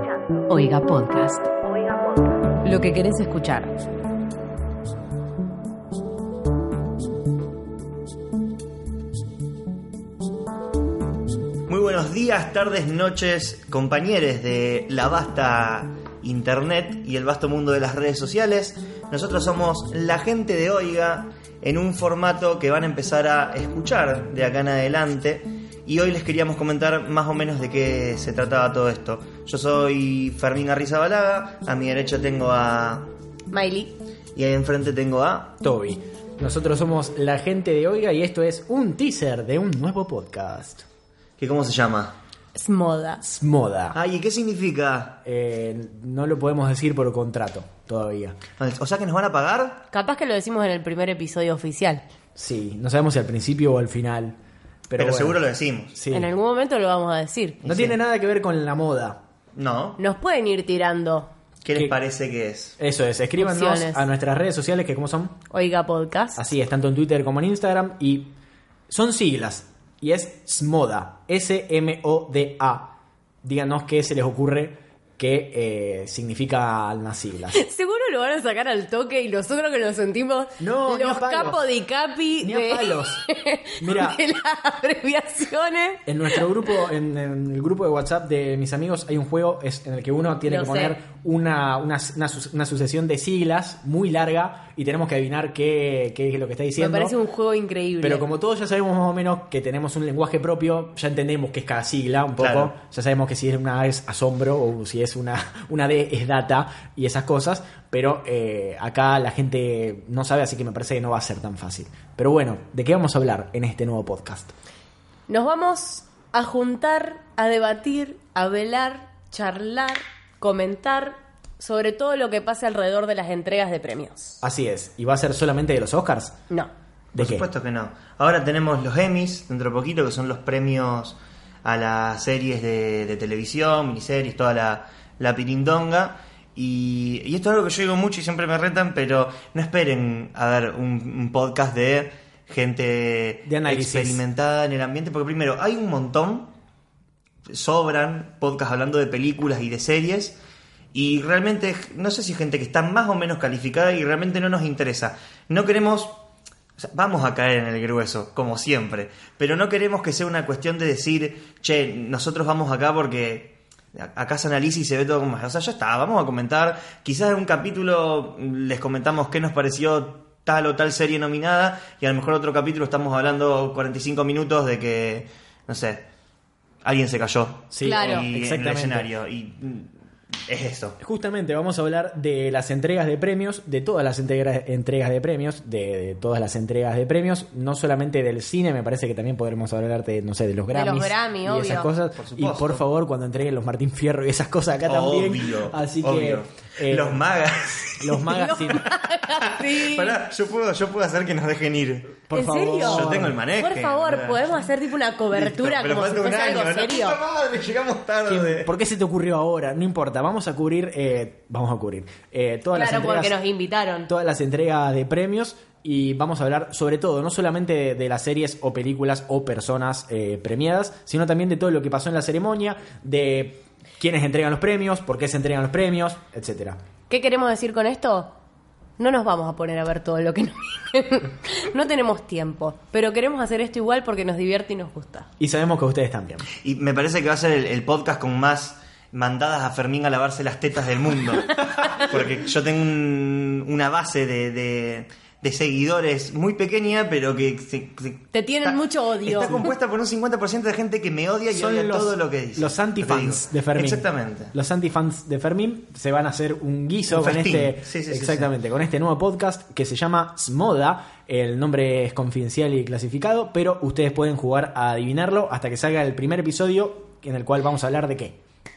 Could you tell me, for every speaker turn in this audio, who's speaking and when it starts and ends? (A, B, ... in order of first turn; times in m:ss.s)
0:00.4-0:01.5 A
0:02.6-0:03.8 A
0:11.7-0:33.1 B
0:33.5-0:34.0 C
0:34.3-0:35.5 B
0:35.6-0:40.8 D
0:41.4-0:42.1 B
0:42.5-0:43.3 C
0:43.2-0:44.0 D
0:43.9-0:45.2 B
0:45.2-0:48.4 D
0:48.6-0:49.8 B
0:49.9-0:52.0 C
0:52.4-0:54.3 D
0:54.9-0:55.4 D
0:55.0-0:56.0 B
0:55.9-0:56.3 D
0:56.1-0:57.6 C
0:57.6-0:58.0 B
0:57.6-0:59.2 D
0:59.5-1:00.0 B
1:00.0-1:01.3 C
1:01.6-1:02.8 B
1:02.8-1:05.4 D
1:03.4-1:04.1 C
1:05.5-1:06.5 C
1:06.3-1:08.3 D
1:08.9-1:12.9 D
1:13.4-1:17.6 D
1:17.5-1:26.4 C
1:20.6-1:21.6 D
1:22.4-1:23.2 D
1:23.8-1:24.2 D
1:26.0-1:37.2 D
1:30.4-1:31.0 C
1:36.8-1:38.2 C
1:38.0-1:54.5 D
1:42.4-1:42.7 B
1:55.3-2:04.4 C
2:04.4-2:06.3 D
2:07.1-2:26.5 B
2:07.2-2:07.4 D
2:23.4-2:24.2 D
2:27.5-2:30.4 B
2:30.9-2:36.2 B
2:36.8-2:56.0 B
2:56.8-2:59.9 B
2:57.7-2:59.1 D
2:57.8-2:58.3 C
3:00.4-3:01.0 B
3:01.0-3:17.2 D
3:10.7-3:11.9 C
3:12.2-3:12.8 B
3:14.8-3:18.3 B
3:18.0-3:18.9 D
3:18.3-3:20.2 C
3:19.4-3:22.3 B
3:22.3-3:23.4 D
3:22.3-3:27.2 C
3:22.8-3:24.5 B
3:25.3-3:28.7 B
3:28.3-3:33.4 D
3:32.7-3:34.1 C
3:34.1-3:46.8 D
3:47.1-3:48.3 C
3:49.0-3:55.3 C
3:55.4-3:56.4 D
3:56.6-4:14.5 B
4:08.3-4:09.6 C
4:11.5-4:28.4 D
4:17.1-4:18.5 B